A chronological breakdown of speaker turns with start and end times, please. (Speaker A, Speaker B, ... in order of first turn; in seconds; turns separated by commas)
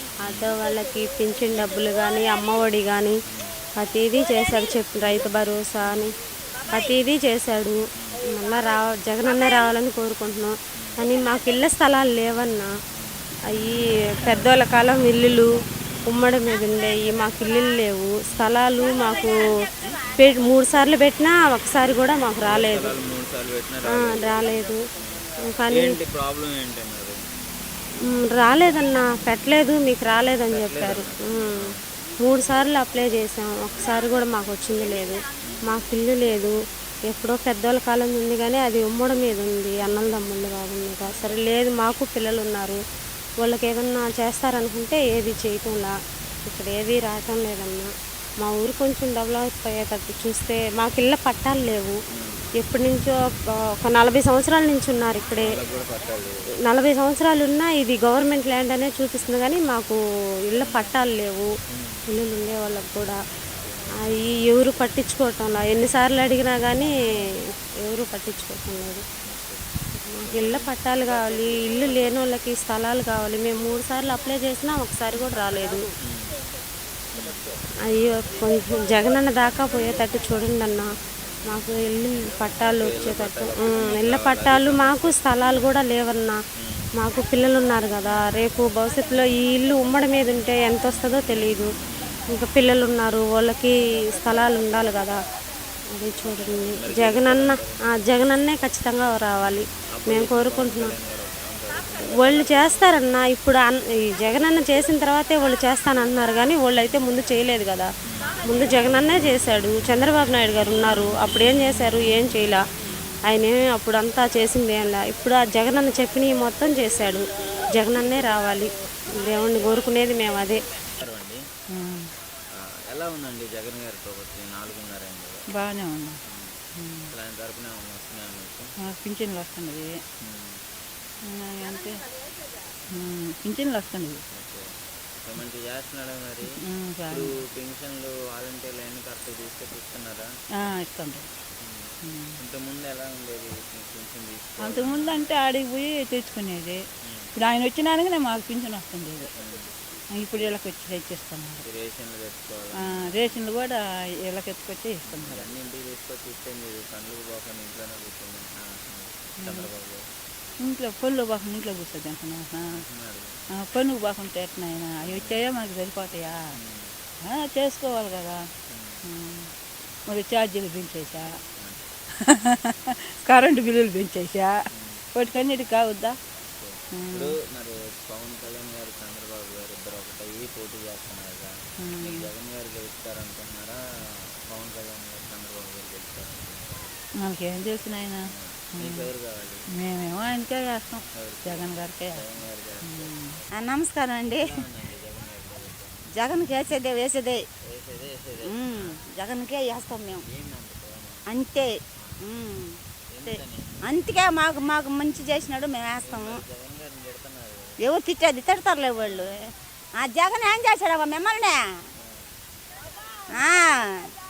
Speaker A: 0.2-3.1, Speaker B: 0.2-0.5, Speaker B: 3.3-3.5, Speaker A: 3.8-6.1, Speaker A: 6.7-12.7, Speaker B: 12.9-13.3, Speaker A: 13.5-15.5, Speaker A: 16.1-22.9, Speaker B: 18.3-18.6, Speaker B: 22.4-24.4, Speaker A: 23.8-24.8, Speaker B: 25.0-27.2, Speaker A: 25.4-26.0, Speaker A: 28.0-36.5, Speaker B: 30.5-31.8, Speaker A: 37.0-42.8, Speaker A: 43.4-52.0, Speaker B: 52.1-52.4, Speaker A: 52.6-53.1, Speaker A: 53.8-55.6, Speaker B: 55.4-56.5, Speaker A: 56.6-61.5, Speaker B: 60.6-60.9, Speaker B: 61.7-62.0, Speaker A: 62.1-63.2, Speaker B: 63.6-63.9, Speaker A: 64.0-69.0, Speaker B: 69.2-69.7, Speaker A: 70.0-75.9, Speaker B: 70.2-70.7, Speaker B: 76.1-76.4, Speaker B: 77.1-77.5, Speaker A: 77.8-80.9, Speaker A: 81.5-86.4, Speaker B: 82.8-85.2, Speaker A: 87.0-91.7, Speaker B: 91.8-92.2, Speaker A: 92.3-95.2, Speaker A: 95.9-100.9, Speaker B: 96.8-98.0, Speaker B: 99.9-102.8, Speaker A: 102.1-107.9, Speaker B: 108.1-108.4, Speaker A: 108.4-112.6, Speaker A: 113.2-120.6, Speaker B: 121.0-121.4, Speaker C: 121.7-122.1, Speaker B: 122.5-125.4, Speaker C: 125.5-126.2, Speaker B: 126.3-128.7, Speaker C: 126.8-127.1, Speaker C: 128.8-130.0, Speaker B: 130.2-130.6, Speaker C: 131.2-132.0, Speaker C: 132.9-134.2, Speaker B: 134.3-136.5, Speaker C: 136.4-137.3, Speaker B: 137.1-140.3, Speaker C: 140.6-141.3, Speaker B: 141.6-145.3, Speaker C: 142.0-142.4, Speaker C: 144.6-146.8, Speaker C: 147.3-149.3, Speaker B: 149.4-149.7, Speaker C: 150.1-151.7, Speaker B: 151.6-153.4, Speaker C: 152.8-155.5, Speaker B: 155.1-160.1, Speaker C: 159.4-159.7, Speaker C: 160.6-162.8, Speaker B: 162.8-163.3, Speaker C: 163.6-166.4, Speaker B: 165.0-165.5, Speaker B: 166.5-167.0, Speaker C: 167.2-168.5, Speaker B: 168.7-169.0, Speaker C: 169.1-169.5, Speaker C: 170.1-171.3, Speaker B: 171.6-171.9, Speaker C: 172.2-174.5, Speaker B: 174.7-175.0, Speaker C: 175.1-176.2, Speaker B: 176.4-183.8, Speaker C: 176.9-177.4, Speaker C: 181.8-182.3, Speaker B: 184.5-187.0, Speaker C: 187.2-188.2, Speaker B: 188.3-189.7, Speaker C: 188.8-189.1, Speaker C: 189.8-192.3, Speaker B: 191.2-193.1, Speaker C: 192.8-193.4, Speaker D: 193.6-194.5, Speaker B: 194.3-196.0, Speaker D: 196.2-197.4, Speaker B: 197.7-199.0, Speaker D: 198.4-200.2, Speaker B: 200.3-201.3, Speaker D: 201.3-201.7, Speaker D: 202.2-202.7, Speaker B: 203.1-203.8, Speaker D: 203.9-206.4, Speaker B: 206.0-207.9, Speaker D: 207.8-209.4, Speaker B: 209.0-209.3, Speaker D: 210.0-211.6, Speaker D: 213.3-213.8